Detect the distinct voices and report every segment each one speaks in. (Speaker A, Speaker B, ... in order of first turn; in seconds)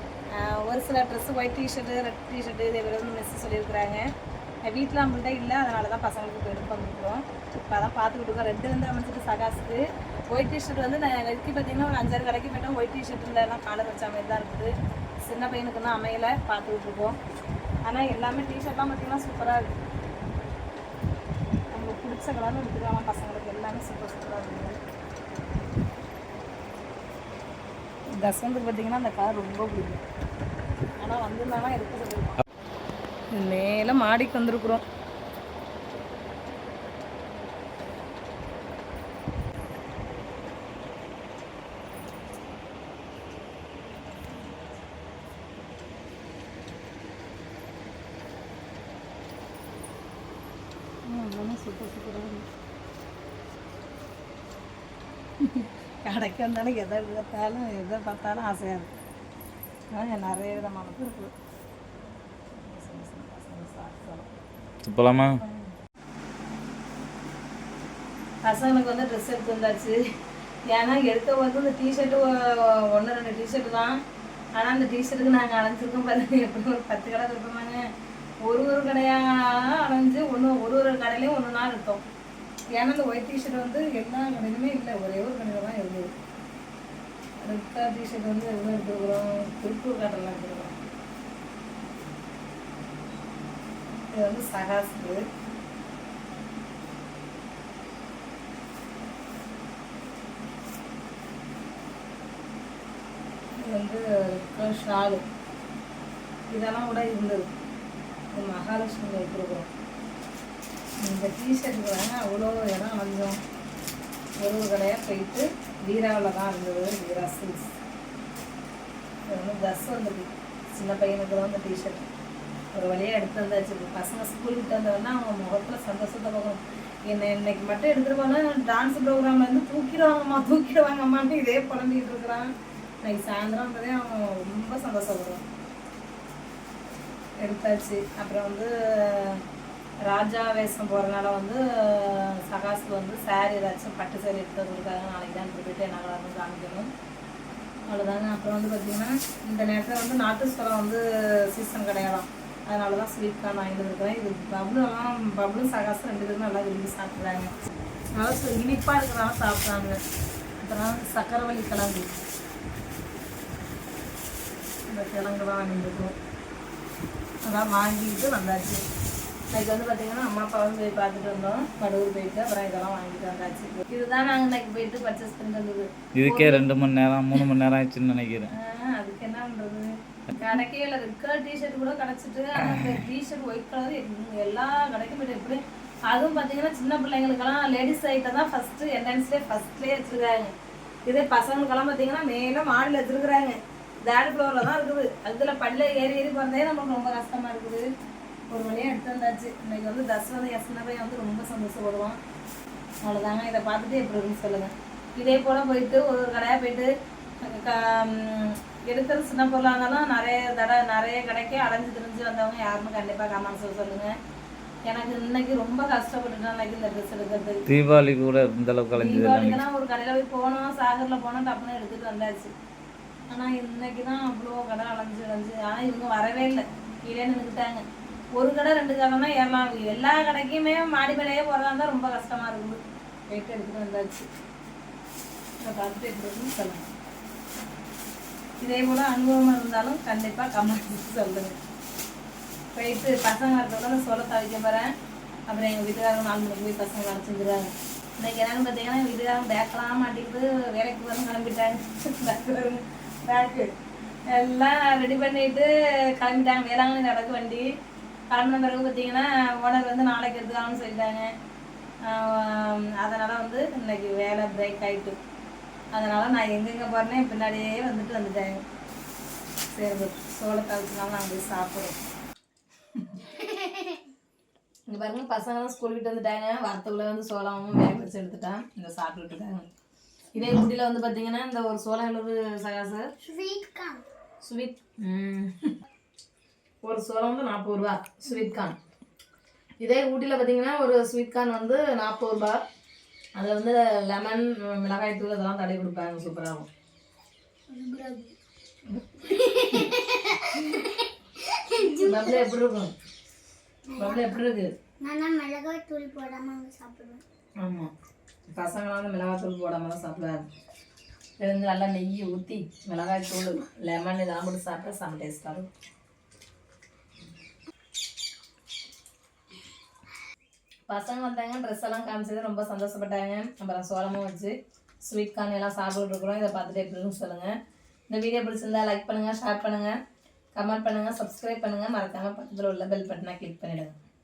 Speaker A: 0.3-4.1, 4.7-17.2, 17.9-19.8, 21.7-24.8, 28.2-30.0, 31.0-32.4, 33.3-34.8, 51.1-52.5, 55.4-59.0, 59.9-61.3, 62.6-64.3, 65.4-65.7, 68.4-70.0, 70.7-74.0, 74.6-77.9, 78.5-82.0, 82.8-86.1, 87.4-90.8, 94.1-95.2, 103.6-105.2, 106.5-107.5, 108.3-109.7, 111.0-113.4, 114.4-117.7, 119.3-122.1, 122.7-132.5, 133.0-135.4, 137.4-139.4, 140.1-146.9, 147.9-157.5, 158.2-160.0, 160.6-162.2, 164.9-166.2, 167.4-168.8, 169.5-176.7, 178.5-190.6, 191.1-197.9, 198.5-202.2, 203.1-206.9, 207.4-214.2, 214.9-217.7, 218.9-222.5, 223.3-227.8, 228.4-234.3, 235.6-236.9, 238.6-241.6, 242.7-244.9, 245.5-253.7, 254.3-257.7, 258.3-261.3, 262.0-265.2, 265.9-268.6, 269.7-272.0, 272.9-273.3, 274.9-279.7, 280.3-283.1, 284.4-285.7, 286.8-288.8, 289.8-292.6, 293.4-296.7, 298.9-299.9, 302.0-302.9, 304.0-304.7, 307.6-307.9, 308.5-310.4, 311.4-315.7, 320.9-327.6, 328.1-330.0, 330.6-334.0
Speaker B: 64.8-65.4, 176.2-178.5, 217.7-219.6
Speaker C: 273.3-274.0, 283.2-284.0, 297.7-298.3, 299.2-302.5, 303.9-304.4, 305.0-307.2